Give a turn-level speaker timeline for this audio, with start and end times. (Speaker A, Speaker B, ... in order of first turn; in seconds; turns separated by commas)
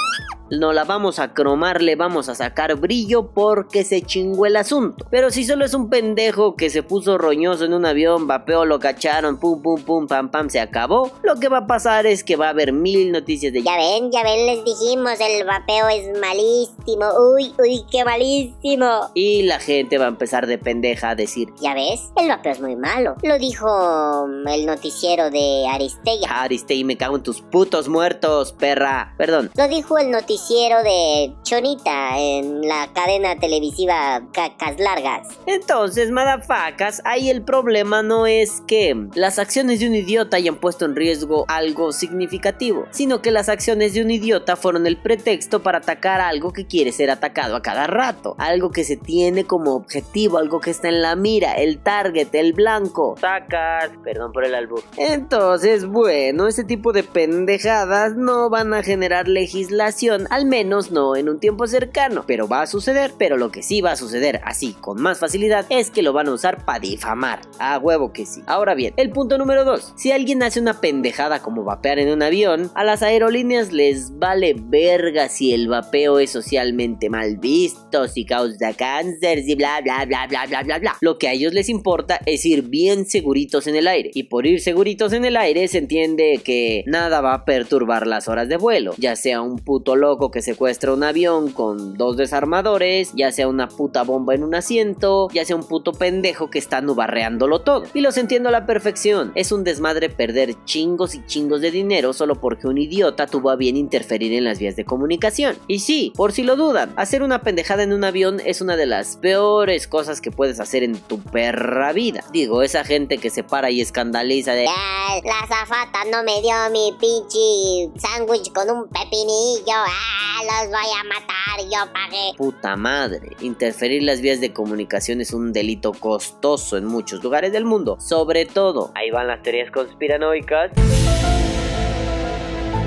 Speaker A: 0.5-13.7, Speaker B: 13.7-19.1, Speaker A: 19.1-21.5, Speaker B: 21.6-26.3, Speaker A: 26.2-29.5, Speaker B: 29.6-35.3, Speaker A: 35.5-114.7, Speaker B: 114.7-122.3, Speaker A: 122.4-130.8